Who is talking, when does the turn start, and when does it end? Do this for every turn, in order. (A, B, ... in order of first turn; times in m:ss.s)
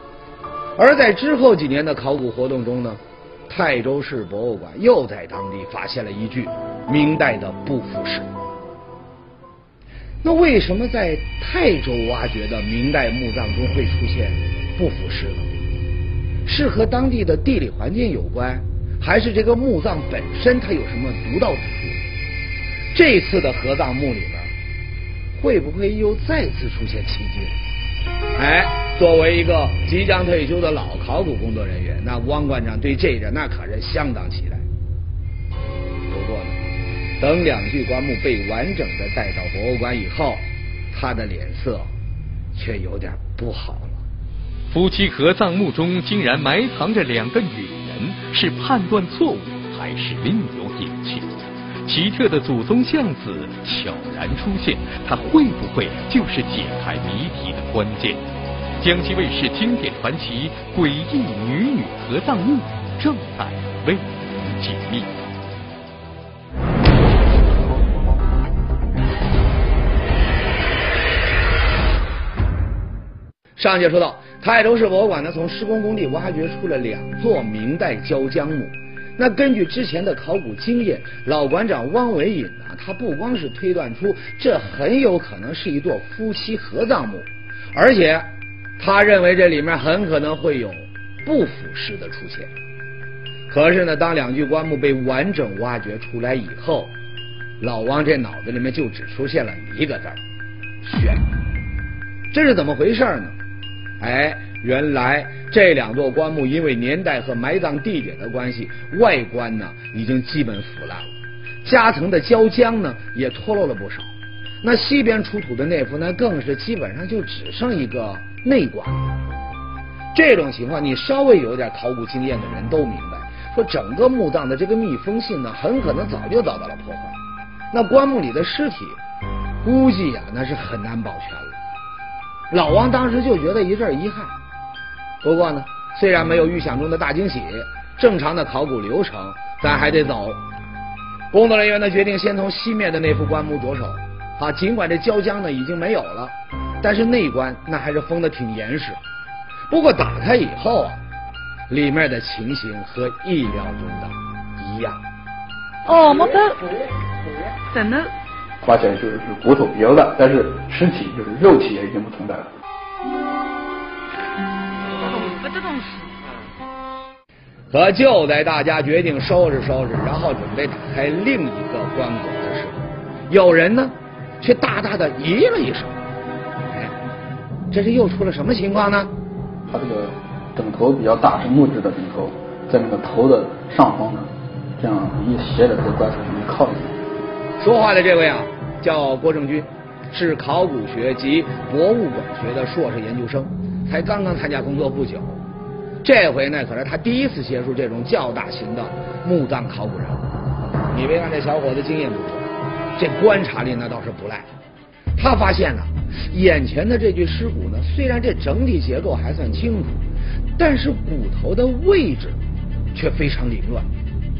0:00.8-0:08.3 A
0:10.2-0:15.6 A
0:16.4-0:22.0 A
0:22.9-0:24.5 A
0:25.4-0:27.6 A
0:28.4-0:34.6 A
0:36.1-0:36.6 A
0:37.2-0:41.9 A
0:42.6-0:44.0 A
0:44.7-0:51.3 B
0:51.8-0:58.2 B
0:58.8-1:05.1 B
1:13.6-1:32.5 A
1:33.5-1:36.9 A
1:37.6-1:40.2 A
1:40.8-1:41.3 A
1:42.3-1:43.4 A
1:44.0-1:54.1 A
1:54.6-1:59.1 A
2:00.1-2:07.2 A
2:07.7-2:09.0 A
2:09.6-2:11.6 A
2:12.5-2:14.3 A
2:15.2-2:20.4 A
2:21.3-2:29.0 A
2:29.7-2:31.0 A
2:31.7-2:35.0 A
2:35.9-2:36.8 C
2:37.7-2:38.1 C
2:38.6-2:42.5 D
2:45.0-2:46.3 C
2:47.7-2:56.0 A
2:57.7-2:59.1 A
2:59.7-3:07.0 D
3:07.6-3:15.4 A
3:16.0-3:20.2 A
3:20.9-3:24.5 A
3:25.2-3:30.0 A
3:30.6-3:32.4 A
3:32.9-3:33.9 A